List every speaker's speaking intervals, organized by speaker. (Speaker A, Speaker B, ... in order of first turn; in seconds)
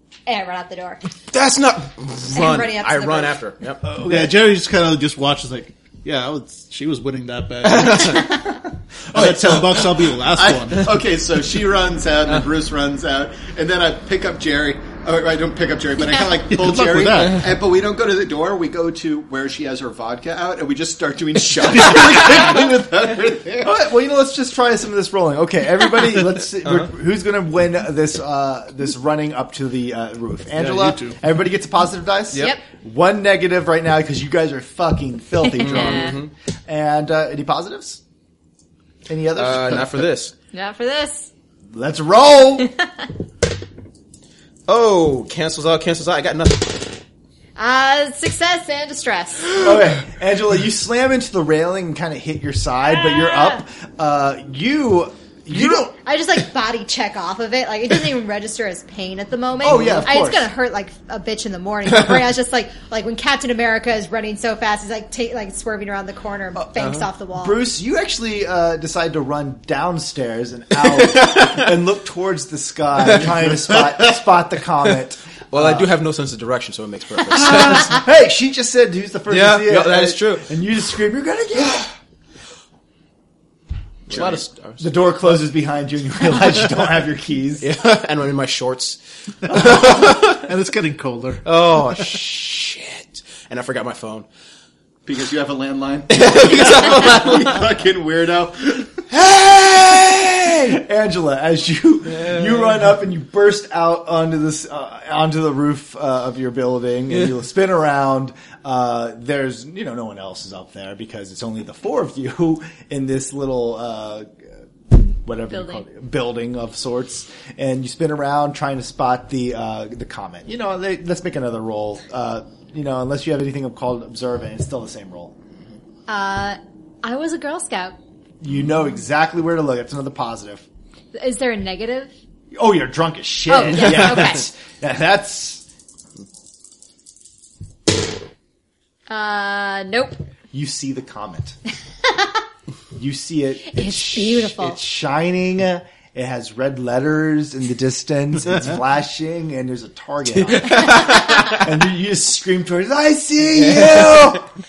Speaker A: 0.3-1.0, 2.3-3.4, 32.3-32.6, 35.4-36.2, 40.5-41.3, 47.6-49.6, 52.9-53.6, 55.9-67.6, 115.5-115.8, 126.1-127.9, 131.1-132.1, 133.5-134.4, 139.1-140.2, 143.7-144.8
Speaker B: 1.3-3.9, 7.7-8.2, 26.6-26.9, 35.6-36.3, 39.4-40.3, 44.7-47.0, 71.0-71.7, 73.2-74.1, 75.5-78.0, 79.3-80.5, 84.1-84.9, 87.6-90.4, 91.4-94.3, 96.1-97.6, 150.6-151.4, 153.7-154.2
Speaker C: 3.8-4.3, 23.6-38.0, 39.1-40.1, 41.7-42.7, 49.6-55.9, 59.6-60.5, 67.4-75.9, 77.3-81.9, 84.1-87.7, 99.1-125.3, 128.4-130.6, 132.5-135.6, 140.5-141.6, 142.9-154.5
Speaker D: 4.0-8.5, 9.1-11.0, 16.5-17.5, 21.8-22.2, 30.6-31.2, 89.5-91.4
Speaker E: 9.3-9.6, 10.3-23.7, 95.0-99.0